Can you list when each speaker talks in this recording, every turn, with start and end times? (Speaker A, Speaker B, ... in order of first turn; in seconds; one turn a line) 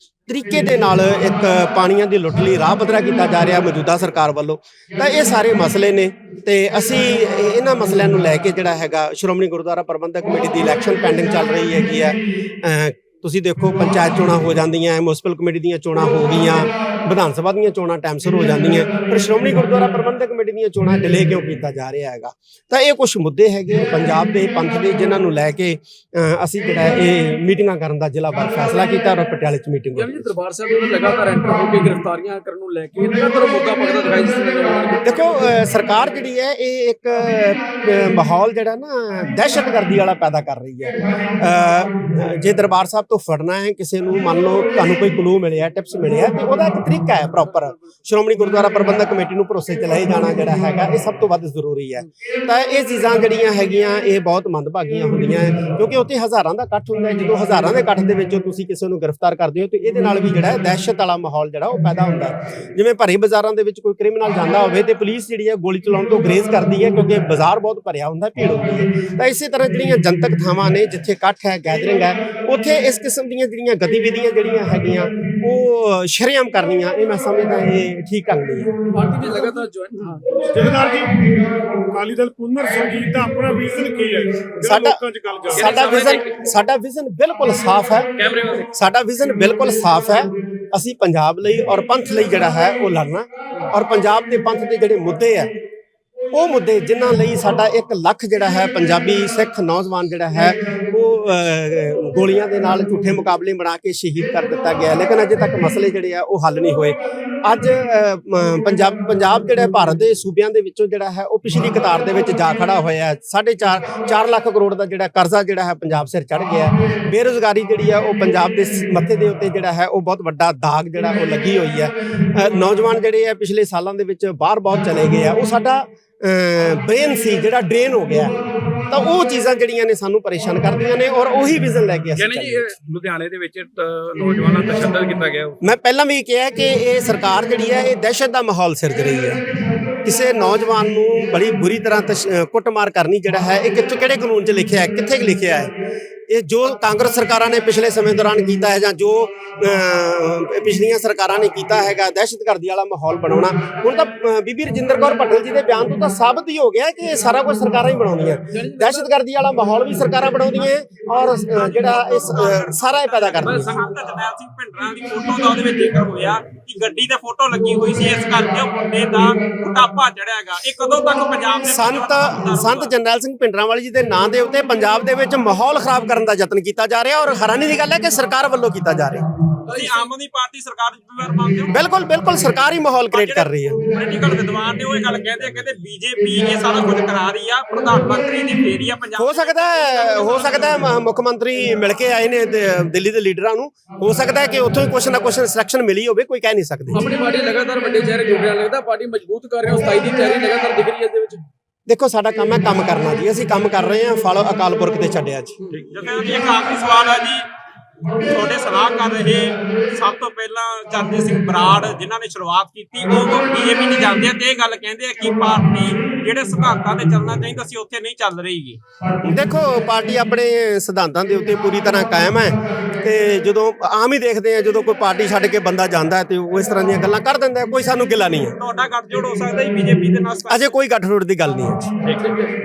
Speaker A: 0.3-30.3
Speaker B: 29.9-35.4
Speaker A: 35.0-78.7
Speaker B: 78.9-80.4
Speaker C: 80.5-85.8
Speaker A: 84.6-88.1
Speaker B: 85.5-86.4
Speaker B: 88.2-88.7
Speaker A: 88.7-95.5
Speaker A: 96.3-132.7
Speaker B: 132.2-135.5
Speaker A: 135.6-139.4
Speaker A: 140.0-145.7
Speaker A: 146.3-163.8
Speaker B: 158.5-159.1
Speaker D: 161.4-172.9
Speaker B: 163.4-163.8
Speaker A: 171.6-179.2
Speaker B: 179.7-180.1
Speaker D: 179.7-181.7
Speaker A: 181.7-183.8
Speaker D: 183.1-190.3
Speaker A: 189.2-197.0
Speaker B: 196.9-201.4
Speaker A: 201.9-205.5
Speaker B: 205.6-205.9
Speaker D: 205.9-207.5
Speaker D: 208.2-218.8
Speaker A: 219.2-228.5
Speaker D: 228.6-230.7
Speaker A: 230.5-231.9
Speaker B: 232.2-232.5